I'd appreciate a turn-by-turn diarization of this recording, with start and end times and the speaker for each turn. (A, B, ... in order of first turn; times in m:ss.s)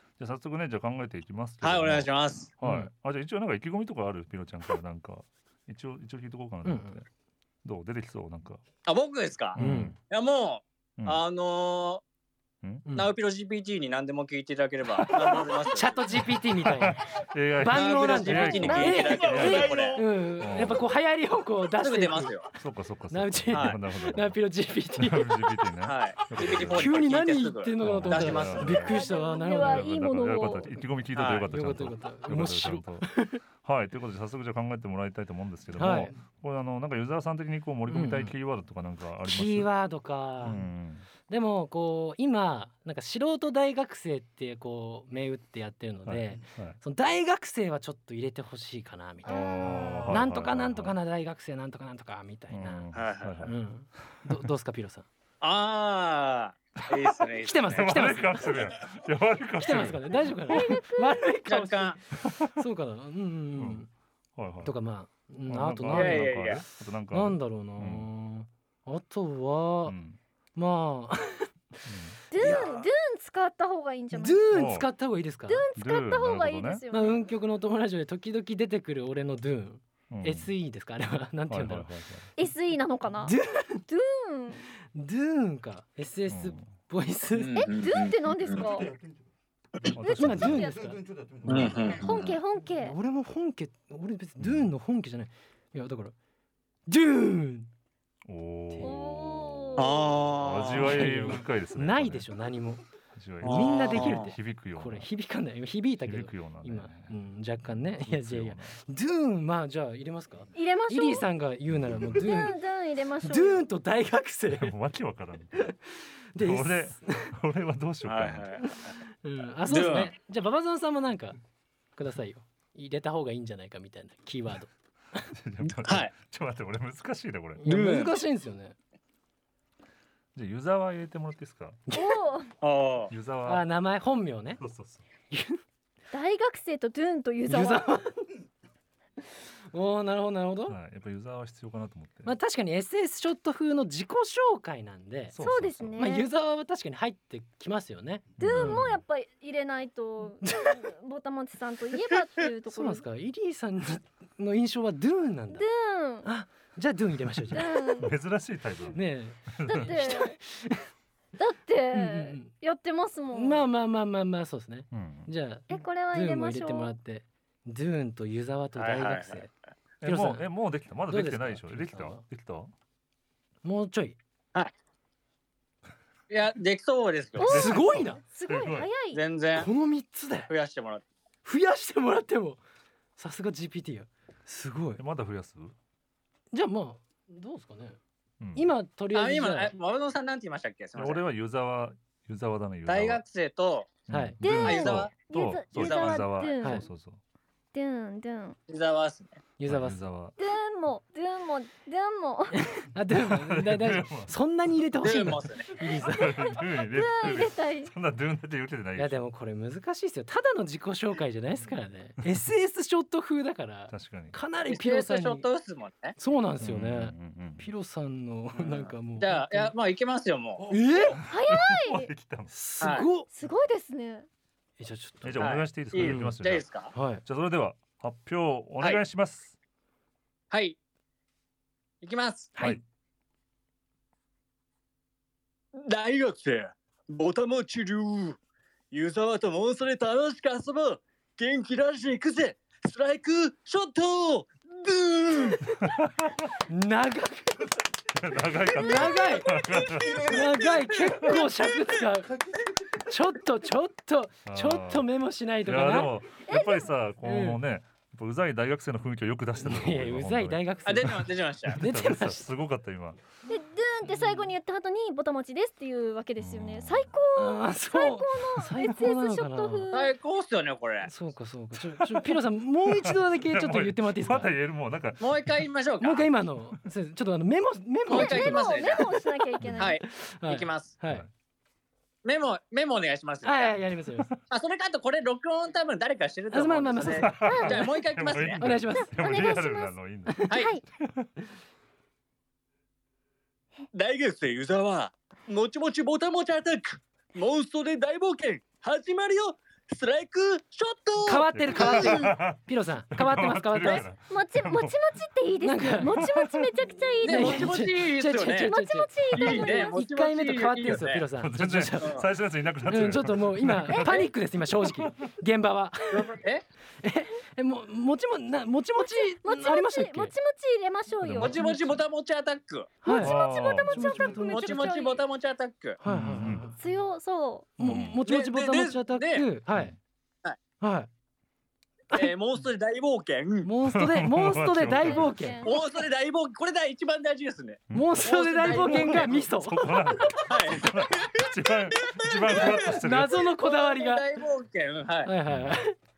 0:00.2-0:07.0 A
0:01.6-0:02.5 B
0:02.6-0:02.9 C
0:06.6-0:07.0 C
0:07.6-0:08.7 A
0:08.8-0:12.0 B
0:09.6-0:10.0 A
0:09.6-0:09.9 C
0:12.9-0:13.1 C
0:12.9-0:16.2 B
0:14.9-0:15.5 A
0:15.7-0:17.0 C
0:16.3-0:19.7 A
0:17.6-0:22.3 C
0:17.7-0:20.0 B
0:19.1-0:20.0 D
0:20.4-0:20.8 A
0:21.8-0:22.5 B
0:22.6-0:24.4 A
0:23.1-0:25.6 C
0:23.5-0:23.8 B
0:25.0-0:27.0 A
0:25.8-0:28.9 B
0:26.7-0:29.9 C
0:27.8-0:29.0 A
0:28.7-0:30.7 E
0:29.6-0:39.7 A
0:31.2-0:31.5 B
0:31.5-0:33.4 C
0:35.8-0:36.1 C
0:37.9-0:38.3 C
0:39.2-0:40.7 C
0:40.4-0:41.1 A
0:41.3-0:49.5 C
0:46.0-0:46.8 A
0:49.2-0:51.0 A
0:49.3-0:50.1 E
0:50.0-0:52.9 C
0:52.5-0:53.6 A
0:52.9-0:53.4 B
0:53.4-0:55.1 C
0:55.4-0:58.1 B
0:57.4-0:58.5 C
0:57.7-1:00.4 A
0:59.6-1:03.9 C
1:00.5-1:01.3 E
1:01.5-1:02.0 B
1:02.3-1:02.5 A
1:03.6-1:03.8 A
1:04.4-1:04.7 A
1:04.6-1:10.0 C
1:05.5-1:08.1 A
1:05.9-1:06.6 B
1:09.8-1:10.2 A
1:10.6-1:11.5 C
1:11.9-1:12.2 A
1:12.3-1:14.5 E
1:12.4-1:12.9 C
1:14.1-1:15.6 C
1:14.5-1:14.9 A
1:15.5-1:17.2 E
1:15.8-1:16.8 A
1:16.9-1:21.9 C
1:20.1-1:20.5 A
1:21.5-1:22.3 A
1:22.4-1:23.4 E
1:23.2-1:23.8 C
1:23.9-1:24.7 E
1:24.9-1:27.6 C
1:26.3-1:26.6 A
1:27.3-1:28.6 B
1:27.6-1:28.9 E
1:28.4-1:32.1 D
1:30.0-1:30.7 A
1:30.0-1:30.8 E
1:30.2-1:31.0 C
1:31.4-1:32.3 B
1:31.6-1:33.0 E
1:32.8-1:36.1 C
1:34.4-1:34.7 A
1:36.9-1:37.7 C
1:38.3-1:42.3 A
1:38.7-1:39.1 C
1:38.8-1:40.1 E
1:39.8-1:41.1 B
1:40.7-1:42.8 C
1:43.1-1:45.1 A
1:43.4-1:44.3 B
1:43.4-1:52.6 C
1:46.0-1:47.1 A
1:47.8-1:48.8 A
1:50.6-1:51.3 E
1:51.7-1:52.2 A
1:52.2-1:53.7 E
1:53.2-1:54.7 C
1:54.5-1:55.8 A
1:55.6-1:57.4 C
1:56.4-1:58.5 A
1:58.1-1:58.9 B
1:58.6-2:01.4 C
1:59.7-2:00.1 B
2:02.0-2:05.3 C
2:05.3-2:07.7 A
2:05.8-2:06.1 B
2:07.6-2:08.8 C
2:07.7-2:08.2 B
2:10.4-2:11.8 A
2:11.9-2:12.2 C
2:11.9-2:12.5 E
2:12.6-2:13.1 B
2:13.1-2:13.7 A
2:13.4-2:14.6 C
2:14.6-2:15.0 A
2:15.3-2:15.6 C
2:16.1-2:17.9 E
2:17.5-2:18.3 C
2:19.7-2:20.8 C
2:20.7-2:22.3 A
2:22.2-2:25.4 C
2:25.3-2:26.0 A
2:25.4-2:26.3 E
2:26.0-2:29.0 C
2:28.4-2:28.9 A
2:28.4-2:33.0 E
2:30.4-2:30.8 C
2:32.7-2:35.6 C
2:35.5-2:36.3 E
2:36.2-2:38.0 C
2:37.5-2:38.1 E
2:38.0-2:39.9 A
2:38.9-2:40.8 C
2:39.6-2:40.4 E
2:41.4-2:43.6 E
2:41.9-2:42.5 C
2:43.3-2:49.5 C
2:44.9-2:45.3 A
2:45.7-2:47.0 E
2:48.8-2:49.5 B
2:50.0-2:52.7 A
2:50.0-2:50.5 C
2:51.1-2:52.2 C
2:53.6-2:54.2 C
2:56.3-2:57.7 B
2:57.4-2:59.2 E
2:57.4-2:58.9 A
2:57.5-2:58.2 C
2:59.1-2:59.7 B
2:59.5-3:00.5 C
3:00.5-3:01.0 B
3:01.4-3:02.6 C
3:03.2-3:05.0 C
3:05.0-3:05.7 A
3:06.5-3:08.0 C
3:08.4-3:08.7 A
3:08.6-3:09.7 C
3:09.1-3:11.2 B
3:11.0-3:13.2 A
3:12.9-3:14.0 B
3:14.1-3:17.2 A
3:14.1-3:14.4 C
3:14.4-3:16.9 E
3:14.6-3:15.1 B
3:15.7-3:16.4 B
3:16.6-3:16.9 C
3:17.7-3:18.6 E
3:18.7-3:19.4 B
3:19.6-3:20.0 C
3:19.7-3:20.4 A
3:20.4-3:22.6 E
3:22.6-3:26.4 C
3:23.1-3:24.3 A
3:25.0-3:25.7 B
3:26.0-3:29.2 A
3:26.2-3:27.9 E
3:29.0-3:35.5 C
3:33.9-3:34.4 A
3:34.7-3:36.2 B
3:36.2-3:39.7 C
3:36.6-3:37.7 A
3:38.6-3:40.7 B
3:40.7-3:41.0 D
3:40.7-3:41.2 C
3:41.3-3:42.1 E
3:41.5-3:42.6 A
3:42.5-3:43.3 C
3:42.8-3:43.1 B
3:43.3-3:44.3 E
3:44.8-3:46.4 C
3:45.2-3:46.7 A
3:45.4-3:46.9 B
3:46.9-3:47.2 C
3:47.2-3:49.5 A
3:50.5-3:50.8 B
3:52.0-3:52.6 B
3:52.6-3:52.8 C
3:55.7-3:58.4 B
3:58.9-4:05.7 B
4:05.9-4:06.3 A
4:06.7-4:07.7 C
4:08.2-4:10.3 A
4:08.7-4:09.5 C
4:08.8-4:09.4 E
4:09.5-4:10.7 D
4:10.2-4:12.3 C
4:12.3-4:12.6 D
4:13.1-4:16.2 C
4:14.5-4:15.1 A
4:15.6-4:23.2 A
4:16.5-4:16.9 E
4:17.2-4:17.6 C
4:19.6-4:22.5 C
4:20.8-4:21.8 B
4:23.5-4:30.1 E
4:26.4-4:27.1 A
4:27.4-4:29.9 C
4:29.9-4:31.1 B
4:31.0-4:34.5 C
4:32.0-4:35.7 A
4:35.2-4:36.3 B
4:36.0-4:38.7 C
4:38.1-4:39.2 B
4:38.1-4:40.0 E
4:39.6-4:39.9 A
4:39.8-4:41.0 B
4:40.1-4:41.3 C
4:42.2-4:43.8 B
4:43.4-4:44.3 C
4:44.5-4:48.7 B
4:46.5-4:47.8 C
4:47.1-4:51.3 A
4:47.4-4:47.8 E
4:48.6-4:49.1 C
4:49.0-4:50.0 E
4:50.3-4:50.6 C
4:50.5-4:50.8 E
4:53.9-5:02.3 B
5:01.2-5:04.1 C
5:01.5-5:05.0 A
5:04.3-5:07.8 E
5:05.6-5:06.2 C
5:06.2-5:06.7 A
5:07.2-5:08.7 B
5:07.2-5:12.2 C
5:08.5-5:10.0 E
5:09.3-5:11.3 B
5:11.4-5:14.3 A
5:12.0-5:12.3 B
5:12.9-5:16.4 C
5:13.9-5:14.3 E
5:16.1-5:16.6 B
5:17.0-5:20.3 C
5:19.0-5:21.6 E
5:21.2-5:21.6 A
5:21.4-5:23.0 B
5:21.5-5:22.0 C
5:23.0-5:23.4 C
5:23.0-5:25.2 E
5:23.2-5:24.1 A
5:23.9-5:24.9 C
5:24.4-5:26.0 B
5:26.0-5:26.8 C
5:26.0-5:26.7 A
5:26.8-5:28.0 E
5:27.8-5:30.0 C
5:27.8-5:28.2 A
5:28.2-5:29.5 B
5:30.8-5:31.1 C
5:32.1-5:33.7 B
5:33.6-5:35.7 C
5:33.8-5:35.5 A
5:35.0-5:35.8 E
5:35.6-5:39.5 B
5:37.9-5:43.5 A
5:37.9-5:40.4 C
5:40.5-5:45.3 B
5:42.6-5:44.2 C
5:45.2-5:46.0 C
5:45.5-5:45.8 A